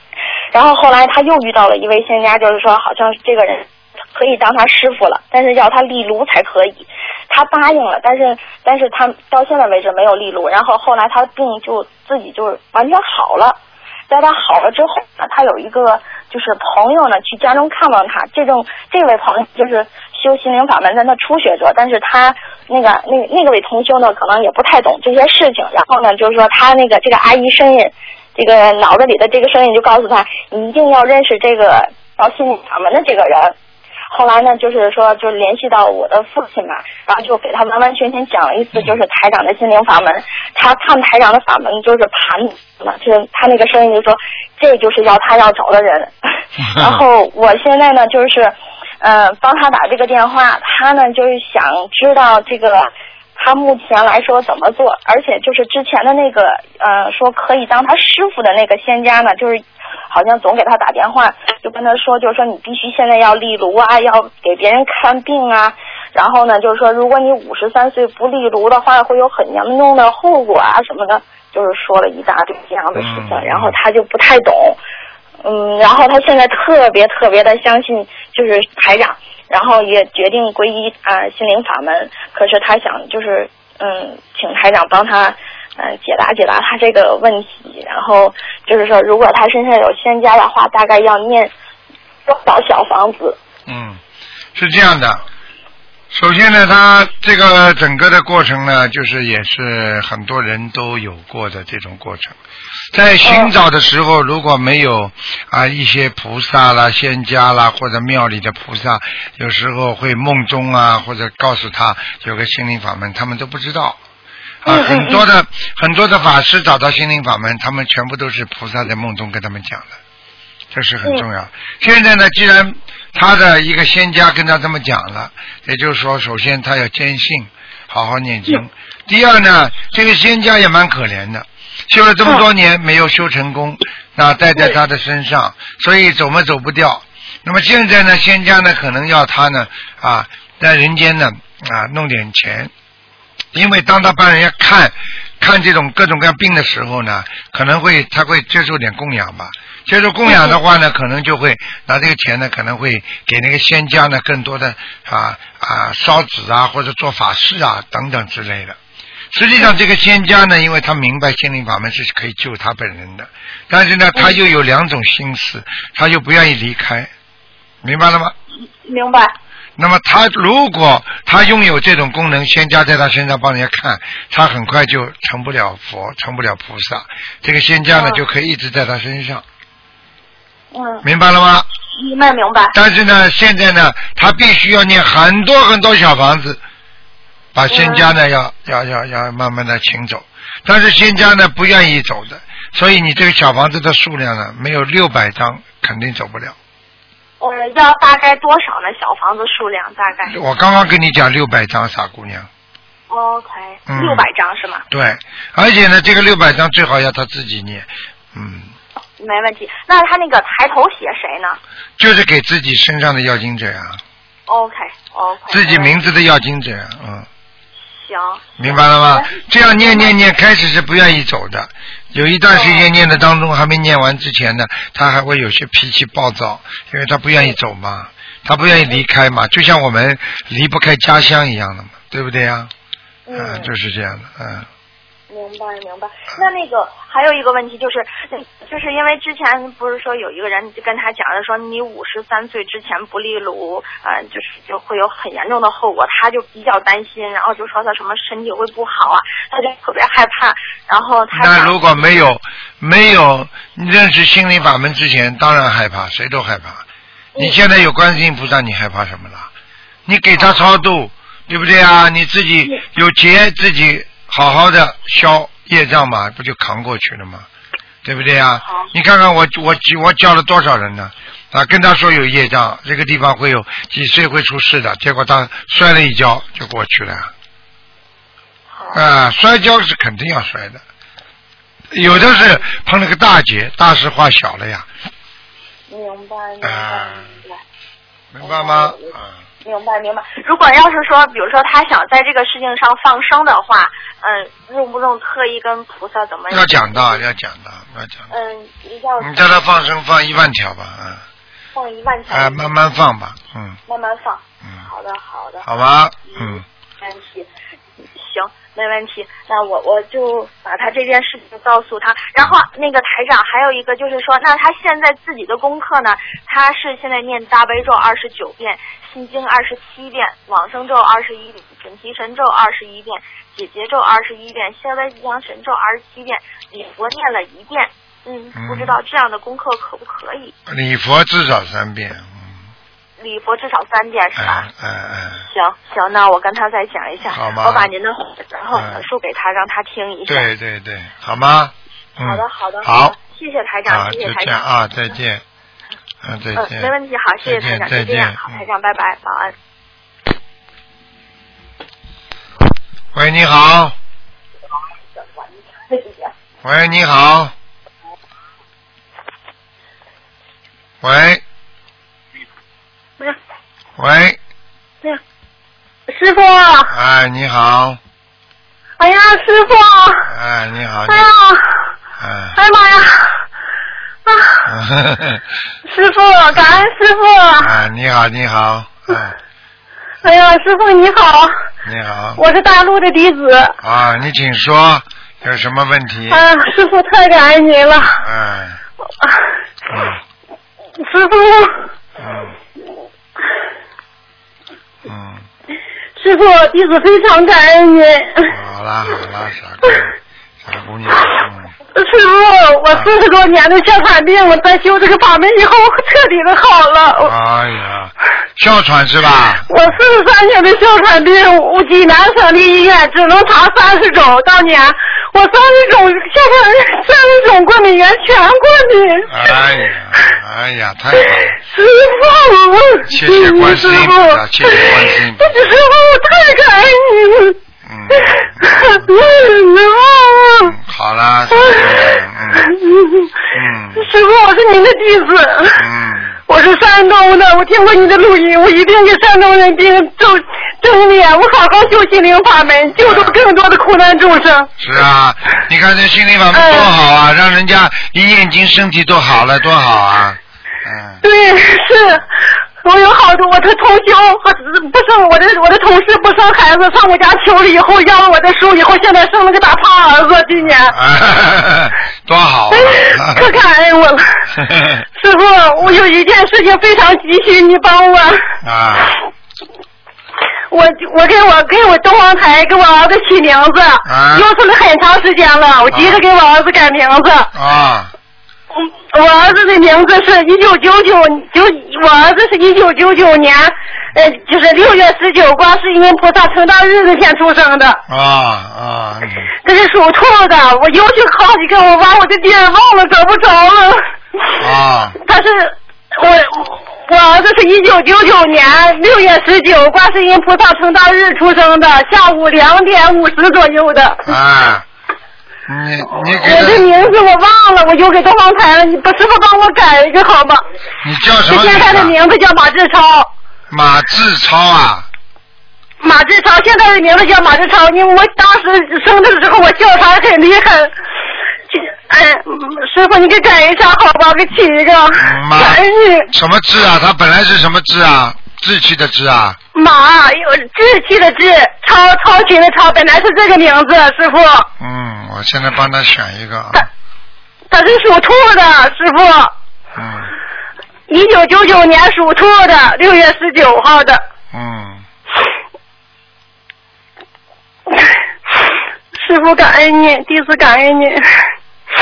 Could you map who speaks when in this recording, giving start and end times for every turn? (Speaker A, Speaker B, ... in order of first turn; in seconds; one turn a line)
Speaker A: 0.5-13.6
Speaker A: 14.1-33.5
Speaker A: 34.1-46.1
Speaker A: 46.6-74.8
Speaker B: 46.7-47.0
Speaker B: 73.0-73.7
Speaker A: 75.4-91.5
Speaker A: 92.2-93.4
Speaker B: 93.7-94.0
Speaker B: 94.5-95.2
Speaker B: 96.1-102.4
Speaker B: 102.9-114.0
Speaker A: 103.2-103.5
Speaker A: 114.6-115.2
Speaker B: 114.6-119.9
Speaker B: 120.7-142.7
Speaker B: 143.5-158.8
Speaker A: 150.2-150.6
Speaker B: 159.3-167.1
Speaker B: 167.8-168.3
Speaker A: 168.8-169.3
Speaker B: 169.8-179.4
Speaker A: 177.9-178.2
Speaker A: 180.7-181.0
Speaker B: 181.0-181.7
Speaker A: 181.9-182.7
Speaker B: 182.7-186.6
Speaker B: 187.5-196.6
Speaker A: 187.7-188.1
Speaker A: 197.4-200.4
Speaker B: 200.2-202.5
Speaker A: 203.1-204.8
Speaker B: 203.9-204.2
Speaker B: 204.9-208.7
Speaker A: 209.2-211.6
Speaker B: 212.0-214.0
Speaker A: 214.5-216.0
Speaker B: 215.5-217.3
Speaker A: 217.9-220.2
Speaker B: 218.6-232.7
Speaker A: 222.5-222.9
Speaker A: 228.7-229.0
Speaker A: 233.2-233.7
Speaker B: 233.3-234.7
Speaker A: 235.3-252.2
Speaker B: 251.3-256.8
Speaker A: 257.3-257.6
Speaker B: 257.4-259.5
Speaker B: 260.1-267.4
Speaker A: 260.3-260.6
Speaker B: 268.0-277.3
Speaker A: 278.7-279.0
Speaker B: 278.9-280.8
Speaker B: 281.9-284.9
Speaker A: 282.3-282.6
Speaker A: 285.9-287.6
Speaker B: 286.6-287.3
Speaker B: 288.3-289.3
Speaker A: 288.4-297.2
Speaker B: 296.5-298.3
Speaker A: 298.3-299.7
Speaker B: 299.2-301.2
Speaker A: 301.7-302.7
Speaker B: 302.3-303.8
Speaker A: 303.9-305.6
Speaker B: 305.6-306.6
Speaker A: 306.3-307.5
Speaker A: 308.1-330.5
Speaker B: 328.5-328.9
Speaker B: 330.7-332.5
Speaker A: 333.2-334.7
Speaker B: 334.4-335.4
Speaker A: 335.4-340.5
Speaker B: 337.3-337.9
Speaker B: 338.7-339.0
Speaker B: 340.3-343.1
Speaker A: 342.2-344.6
Speaker B: 343.9-345.4
Speaker B: 346.2-346.9
Speaker A: 346.5-349.5
Speaker B: 347.4-348.6
Speaker B: 353.1-353.9
Speaker A: 355.4-356.3
Speaker B: 356.6-357.5
Speaker B: 361.0-361.4
Speaker B: 364.0-364.4
Speaker C: 366.1-366.9
Speaker B: 366.9-368.0
Speaker C: 369.0-370.3
Speaker B: 370.3-371.3
Speaker C: 371.1-371.8
Speaker B: 372.2-372.6
Speaker C: 372.6-373.4
Speaker C: 374.3-374.6
Speaker B: 374.6-375.4
Speaker C: 375.9-377.7
Speaker B: 376.5-376.9
Speaker B: 377.6-379.4
Speaker C: 380.2-381.5
Speaker B: 381.8-382.4
Speaker C: 382.4-383.8
Speaker B: 383.8-386.4
Speaker C: 386.3-388.2
Speaker B: 388.2-388.8
Speaker B: 389.9-390.2
Speaker C: 391.0-391.9
Speaker B: 392.2-392.5
Speaker B: 395.1-395.4
Speaker C: 396.2-398.5
Speaker B: 398.5-401.7
Speaker C: 401.9-407.3
Speaker B: 407.2-409.7
Speaker C: 409.7-419.3
Speaker B: 419.3-421.6
Speaker C: 421.5-427.6
Speaker B: 423.1-425.6
Speaker B: 427.9-429.1
Speaker C: 428.1-430.7
Speaker B: 430.6-432.7
Speaker C: 431.6-431.8
Speaker C: 432.6-433.3
Speaker B: 433.5-434.1
Speaker C: 433.9-435.8
Speaker B: 435.7-436.3
Speaker C: 436.5-444.7
Speaker B: 443.0-443.4
Speaker B: 444.8-451.2
Speaker C: 446.5-446.9
Speaker C: 451.2-452.2
Speaker C: 452.8-460.9
Speaker B: 460.6-463.5
Speaker C: 462.7-464.4
Speaker B: 464.5-465.0
Speaker C: 465.2-468.4
Speaker B: 468.6-469.1
Speaker C: 470.7-477.5
Speaker B: 474.0-474.5
Speaker B: 475.9-476.2
Speaker B: 477.5-478.1
Speaker C: 478.7-488.0
Speaker B: 488.1-489.5
Speaker C: 489.6-494.0
Speaker B: 494.6-495.2
Speaker C: 495.2-504.3
Speaker B: 504.2-504.8
Speaker B: 505.7-506.9
Speaker C: 506.4-510.6
Speaker B: 511.0-512.1
Speaker C: 511.5-513.3
Speaker B: 513.7-515.1
Speaker C: 516.0-520.9
Speaker C: 521.7-526.3
Speaker B: 525.2-529.6
Speaker C: 529.7-534.7
Speaker B: 534.8-536.9
Speaker C: 537.7-539.5
Speaker B: 539.9-540.3
Speaker C: 541.1-544.2
Speaker B: 544.5-545.0
Speaker C: 549.1-551.5